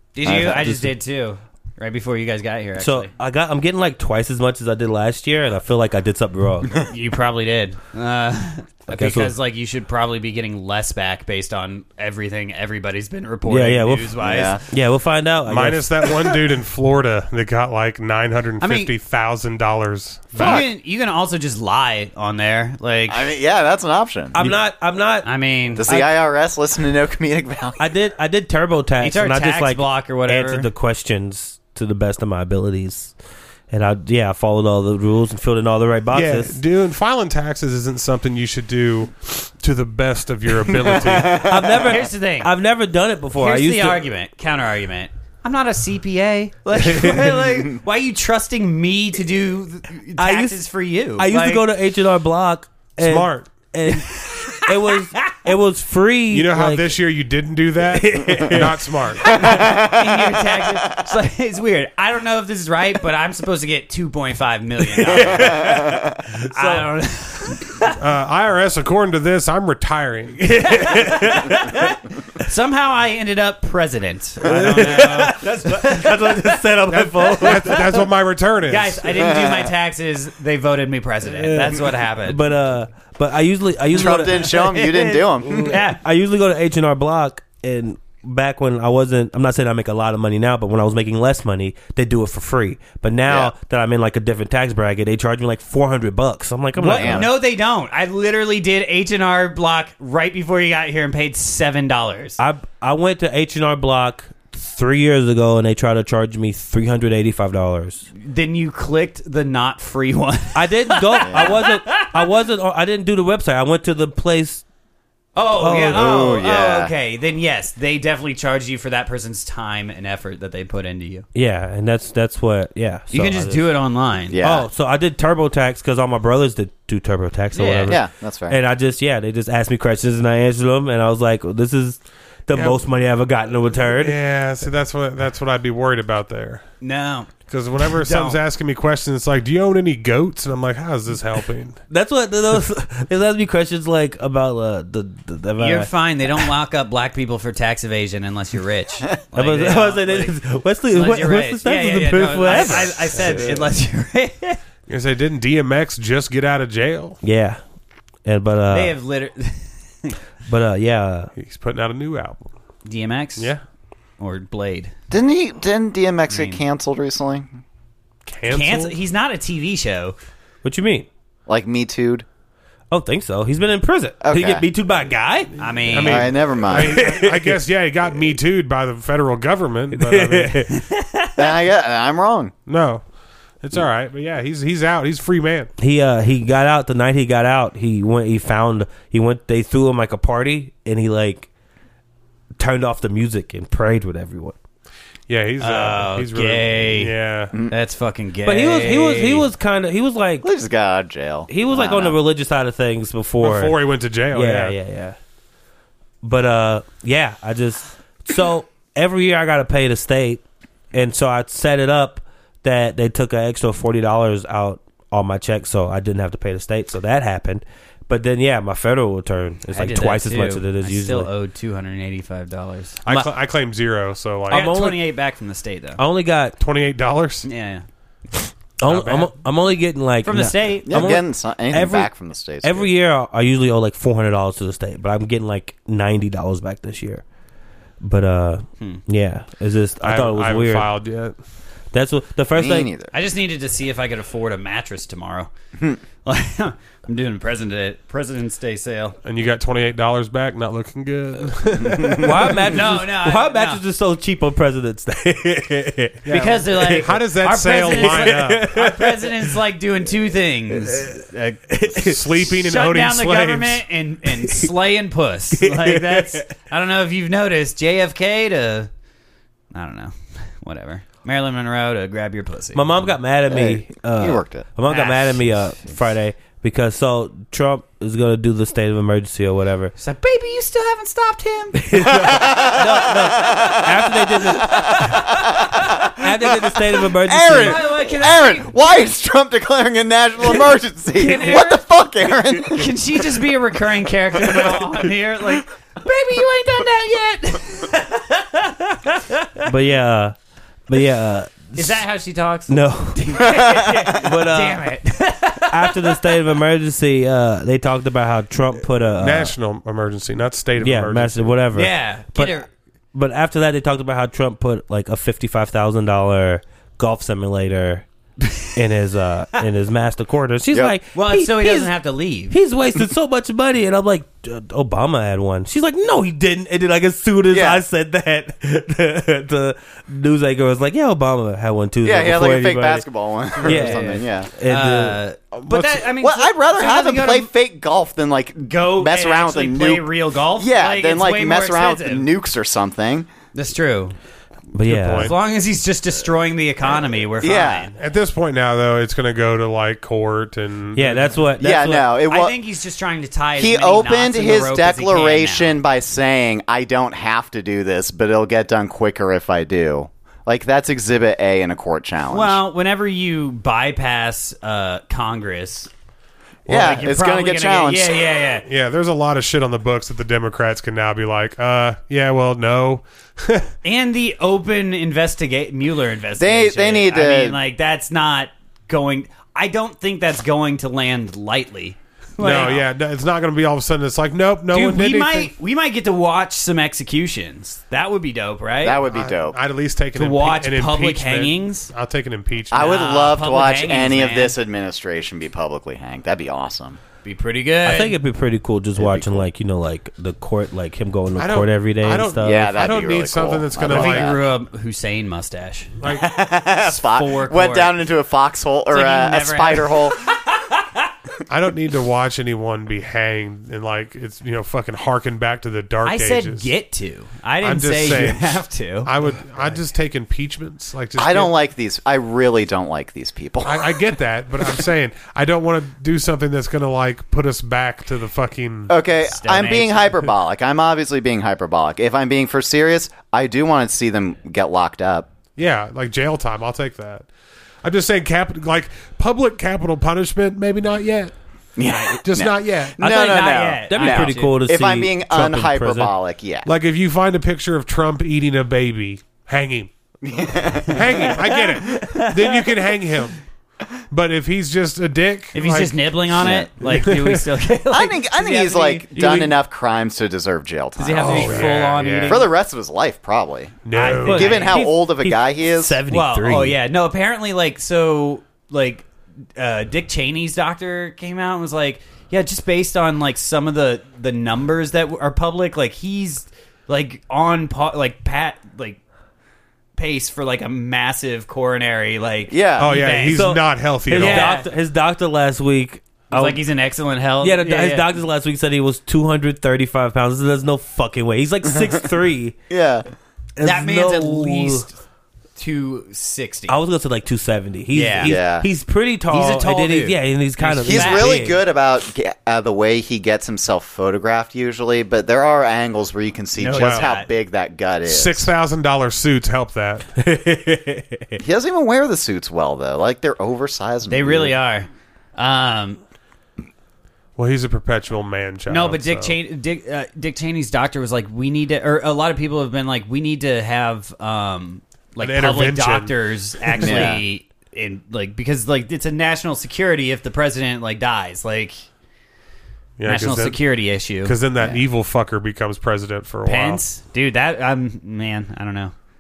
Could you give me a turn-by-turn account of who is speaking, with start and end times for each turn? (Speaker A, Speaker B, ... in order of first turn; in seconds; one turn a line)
Speaker A: 0.1-3.1
Speaker B: 0.2-0.9
Speaker B: 2.8-6.8
Speaker A: 6.9-14.7
Speaker B: 8.9-9.3
Speaker B: 13.5-16.2
Speaker C: 14.2-14.6
Speaker D: 15.5-20.6
Speaker A: 18.6-18.9
Speaker A: 20.3-23.3
Speaker C: 20.4-20.7
Speaker C: 23.1-24.4
Speaker B: 24.4-25.3
Speaker A: 25.2-25.9
Speaker C: 25.8-27.9
Speaker B: 25.8-26.1
Speaker B: 27.8-33.1
Speaker A: 29.0-30.7
Speaker B: 33.7-36.6
Speaker D: 36.1-41.5
Speaker C: 40.8-41.5
Speaker B: 41.4-44.1
Speaker A: 41.7-42.5
Speaker A: 43.4-51.6
Speaker B: 46.9-47.3
Speaker B: 50.2-50.6
Speaker B: 51.2-56.9
Speaker D: 53.0-53.5
Speaker A: 53.9-55.4
Speaker D: 56.3-59.4
Speaker B: 57.9-59.7
Speaker C: 59.3-61.0
Speaker A: 59.3-66.0
Speaker B: 65.0-66.9
Speaker C: 65.3-66.0
Speaker A: 66.5-68.0
Speaker D: 68.0-70.4
Speaker B: 70.4-71.9
Speaker A: 70.6-76.5
Speaker B: 74.4-78.1
Speaker D: 76.9-79.1
Speaker A: 78.7-82.4
Speaker C: 79.1-79.7
Speaker B: 81.3-84.9
Speaker C: 83.9-85.8
Speaker A: 84.3-86.0
Speaker B: 85.4-97.3
Speaker C: 93.3-93.5
Speaker A: 96.8-102.4
Speaker C: 96.9-97.3
Speaker B: 102.4-108.1
Speaker A: 108.1-112.2
Speaker B: 110.5-114.6
Speaker C: 111.2-111.5
Speaker A: 115.3-121.3
Speaker B: 115.6-116.2
Speaker C: 115.9-116.9
Speaker B: 121.3-123.7
Speaker A: 123.1-124.4
Speaker C: 124.3-124.7
Speaker B: 124.4-134.2
Speaker A: 127.5-128.0
Speaker C: 127.9-128.6
Speaker D: 132.5-132.8
Speaker D: 134.0-136.6
Speaker A: 136.8-137.3
Speaker D: 137.5-141.8
Speaker A: 137.8-138.4
Speaker B: 141.9-146.5
Speaker A: 145.6-150.4
Speaker B: 149.3-153.4
Speaker A: 150.9-154.6
Speaker D: 152.5-153.6
Speaker D: 154.9-157.2
Speaker B: 157.2-157.6
Speaker B: 158.2-159.0
Speaker A: 158.7-160.2
Speaker B: 160.5-161.3
Speaker D: 161.4-162.5
Speaker A: 162.8-163.5
Speaker A: 164.2-164.9
Speaker C: 165.1-167.6
Speaker A: 166.3-166.6
Speaker D: 168.3-169.0
Speaker A: 168.5-170.2
Speaker B: 170.6-171.1
Speaker C: 171.5-172.2
Speaker B: 172.9-175.5
Speaker C: 174.2-174.6
Speaker A: 175.6-176.3
Speaker D: 175.9-180.7
Speaker C: 176.0-177.1
Speaker B: 176.7-177.6
Speaker B: 179.9-180.7
Speaker A: 180.7-181.5
Speaker C: 181.4-182.5
Speaker D: 182.7-183.0
Speaker D: 183.6-185.7
Speaker B: 185.8-191.5
Speaker B: 192.6-194.6
Speaker D: 195.3-197.5
Speaker A: 195.6-197.1
Speaker A: 197.7-199.5
Speaker B: 198.4-200.5
Speaker C: 200.4-202.2
Speaker B: 201.5-203.8
Speaker D: 203.4-204.8
Speaker B: 204.3-205.2
Speaker B: 206.2-210.4
Speaker B: 210.9-221.3
Speaker A: 219.7-223.0
Speaker D: 223.0-224.7
Speaker B: 224.5-225.1
Speaker A: 224.5-226.0
Speaker B: 226.0-226.6
Speaker D: 226.6-227.5
Speaker A: 227.4-227.8
Speaker B: 228.8-232.1
Speaker D: 228.9-229.3
Speaker A: 230.2-230.9
Speaker C: 230.9-232.9
Speaker B: 232.6-237.2
Speaker B: 238.0-240.9
Speaker D: 240.0-241.4
Speaker B: 241.9-242.9
Speaker C: 242.6-243.1
Speaker A: 243.1-245.5
Speaker A: 246.2-249.2
Speaker D: 249.2-252.7
Speaker C: 251.9-252.3
Speaker B: 252.1-257.2
Speaker A: 252.7-253.8
Speaker D: 256.2-258.7
Speaker A: 256.3-261.8
Speaker B: 257.9-259.6
Speaker B: 260.7-261.1
Speaker B: 261.7-262.2
Speaker D: 262.0-263.8
Speaker A: 262.4-268.9
Speaker B: 264.4-264.7
Speaker B: 265.5-266.5
Speaker A: 269.7-273.1
Speaker B: 272.8-279.9
Speaker C: 273.5-274.7
Speaker A: 274.9-276.0
Speaker A: 280.0-282.3
Speaker B: 281.8-287.9
Speaker C: 282.1-286.2
Speaker A: 284.6-286.1
Speaker C: 287.0-292.9
Speaker A: 287.6-288.8
Speaker A: 291.1-291.8
Speaker A: 292.7-299.7
Speaker C: 294.4-294.8
Speaker B: 299.6-300.4
Speaker B: 300.9-302.0
Speaker A: 301.8-306.4
Speaker B: 302.7-304.9
Speaker C: 303.4-304.0
Speaker B: 305.7-309.5
Speaker D: 309.2-311.6
Speaker B: 310.8-312.6
Speaker A: 311.7-312.7
Speaker B: 313.1-318.1
Speaker B: 318.7-321.9
Speaker A: 321.1-322.6
Speaker B: 322.5-333.1
Speaker C: 327.5-327.8
Speaker C: 332.0-334.5
Speaker A: 333.6-337.5
Speaker B: 333.6-335.2
Speaker C: 335.7-343.3
Speaker A: 338.7-342.3
Speaker A: 343.5-344.1
Speaker B: 344.7-345.4
Speaker D: 344.8-345.4
Speaker A: 345.2-348.0
Speaker C: 347.4-347.9
Speaker D: 348.0-351.4
Speaker B: 350.9-352.2
Speaker C: 351.6-352.6
Speaker A: 352.3-355.8
Speaker C: 353.6-362.6
Speaker A: 362.3-365.9
Speaker C: 366.7-368.2
Speaker A: 366.7-368.6
Speaker D: 368.6-373.7
Speaker A: 373.8-382.9
Speaker C: 376.4-377.6
Speaker D: 382.4-385.5
Speaker A: 384.7-389.0
Speaker C: 388.8-389.6
Speaker D: 389.1-393.0
Speaker A: 390.2-391.9
Speaker C: 392.7-397.0
Speaker A: 392.7-394.6
Speaker A: 397.2-398.2
Speaker B: 397.8-402.8
Speaker C: 399.0-399.4
Speaker D: 401.4-404.4
Speaker C: 402.4-404.4
Speaker A: 403.9-406.0
Speaker C: 406.1-410.2
Speaker A: 406.8-407.9
Speaker A: 408.9-411.1
Speaker D: 411.5-416.7
Speaker A: 416.0-419.1
Speaker D: 417.6-418.5
Speaker D: 419.0-421.5
Speaker C: 421.2-424.0
Speaker D: 423.6-428.9
Speaker C: 428.9-435.3
Speaker A: 429.2-430.2
Speaker D: 435.6-437.3
Speaker D: 437.8-441.3
Speaker C: 441.8-446.7
Speaker A: 441.9-442.2
Speaker D: 442.2-442.9
Speaker B: 443.0-446.1
Speaker A: 443.1-444.6
Speaker D: 446.6-449.9
Speaker C: 450.2-451.3
Speaker D: 450.9-453.4
Speaker A: 451.1-452.7
Speaker D: 454.1-456.1
Speaker A: 455.5-459.6
Speaker C: 456.3-456.7
Speaker D: 456.8-457.5
Speaker C: 457.9-466.0
Speaker A: 461.0-462.5
Speaker D: 461.2-462.5
Speaker D: 463.9-464.6
Speaker A: 463.9-464.9
Speaker B: 464.1-466.8
Speaker A: 466.1-479.0
Speaker A: 480.0-483.5
Speaker C: 482.5-483.0
Speaker D: 482.8-484.6
Speaker B: 483.3-486.6
Speaker A: 484.1-484.7
Speaker A: 486.3-488.1
Speaker B: 487.4-492.6
Speaker C: 492.7-493.1
Speaker B: 493.6-494.9
Speaker A: 493.6-495.0
Speaker A: 495.6-496.8
Speaker B: 496.7-501.6
Speaker A: 497.9-498.4
Speaker C: 498.2-498.7
Speaker A: 499.3-501.4
Speaker C: 500.8-508.5
Speaker A: 506.6-507.3
Speaker D: 506.7-507.1
Speaker D: 508.1-510.1
Speaker B: 510.2-511.4
Speaker C: 511.4-514.6
Speaker A: 514.1-516.0
Speaker D: 517.4-519.4
Speaker A: 518.7-531.8
Speaker D: 525.2-526.2
Speaker C: 526.8-527.2
Speaker D: 533.0-533.6
Speaker A: 533.0-534.4
Speaker D: 534.2-536.8
Speaker A: 536.5-538.9